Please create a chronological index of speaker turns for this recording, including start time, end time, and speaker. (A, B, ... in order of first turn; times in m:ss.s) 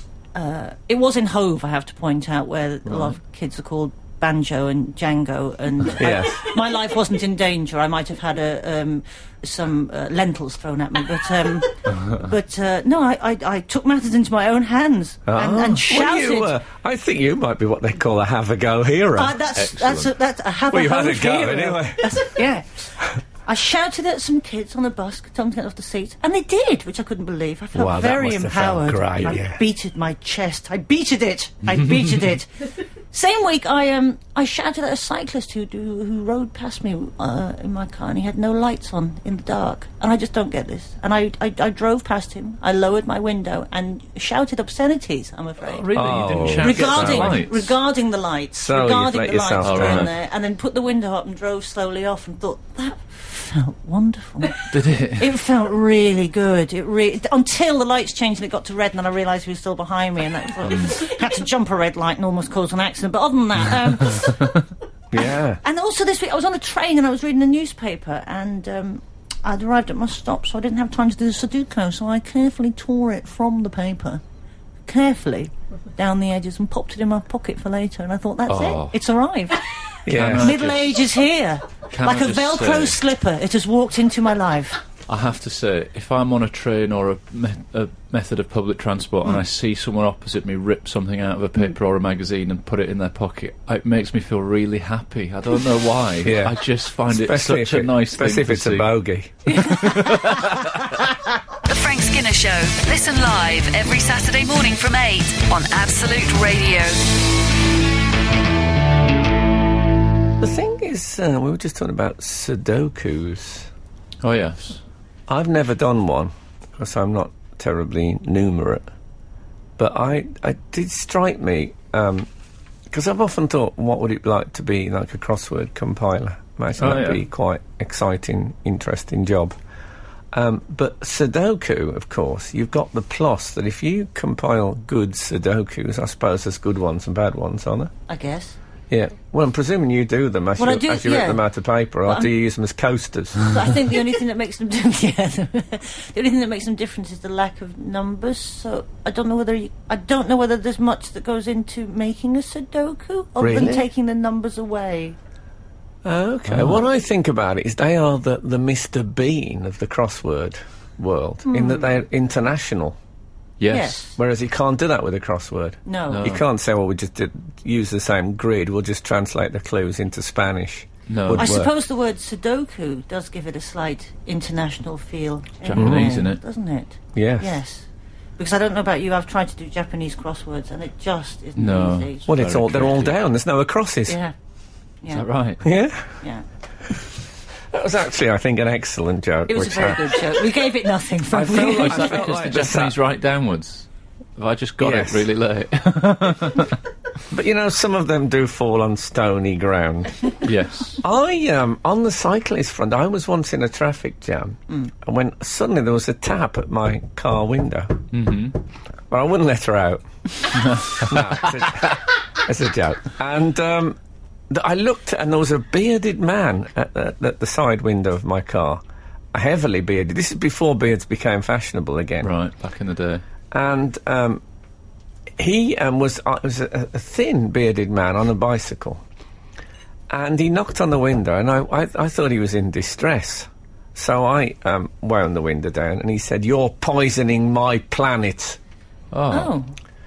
0:00.3-0:16.6 A
0:02.9-0:03.2 B
0:06.0-0:06.5 C
0:15.3-0:19.4 C
0:19.2-0:22.9 A
0:19.6-0:20.1 B
0:20.7-0:22.3 C
0:23.4-0:32.5 A
0:27.7-0:29.6 C
0:33.1-0:45.9 A
0:45.6-0:47.7 B
0:45.9-0:47.5 C
0:46.6-0:54.6 A
0:48.6-0:50.1 C
0:49.6-0:50.1 B
0:54.7-0:55.3 B
0:55.2-1:04.5 A
1:05.1-1:05.6 C
1:05.2-1:14.2 A
1:14.9-1:19.6 A
1:18.5-1:19.0 B
1:20.1-1:20.6 C
1:20.1-1:21.0 B
1:20.4-1:24.8 A
1:21.9-1:23.0 B
1:25.1-1:38.9 B
1:36.2-1:36.6 C
1:37.1-1:40.1 C
1:39.5-1:40.3 A
1:39.6-1:40.7 B
1:41.6-1:47.0 D
1:50.4-1:53.7 C
1:54.2-1:54.8 B
1:55.3-1:58.9 C
1:59.8-2:02.3 C
2:02.9-2:09.5 C
2:06.8-2:07.2 B
2:10.3-2:17.9 C
2:18.1-2:18.6 A
2:18.9-2:23.7 C
2:20.6-2:21.4 A
2:22.0-2:22.3 A
2:23.5-2:35.2 A
2:33.4-2:33.9 C
2:36.0-2:43.0 C
2:36.5-2:36.8 B
2:41.5-2:41.9 A
2:43.6-2:44.0 B
2:43.7-2:44.2 A
2:44.2-2:51.7 C
2:45.9-2:46.4 A
2:46.1-2:46.4 B
2:51.1-2:51.6 B
2:51.4-2:57.9 A
2:55.6-2:56.4 B
2:55.8-2:56.2 C
2:57.1-2:57.6 C
2:58.4-3:02.3 A
3:01.6-3:03.2 B
3:02.3-3:04.2 C
3:04.1-3:04.3 A
3:05.1-3:05.6 B
3:05.6-3:06.1 C
3:07.7-3:10.5 C
3:09.5-3:12.3 A
3:11.3-3:13.0 C
3:11.5-3:16.8 B
3:14.8-3:15.3 C
3:17.3-3:20.3 C
3:20.4-3:21.0 B
3:21.0-3:28.1 C
3:28.1-3:28.6 B
3:29.1-3:30.0 C
3:30.5-3:31.7 B
3:30.9-3:34.0 C
3:34.5-3:38.8 C
3:39.3-3:42.3 C
3:42.2-3:43.2 B
3:43.5-3:44.4 C
3:45.4-3:49.0 C
3:50.1-3:58.6 C
3:59.1-3:59.6 B
3:59.3-3:59.7 A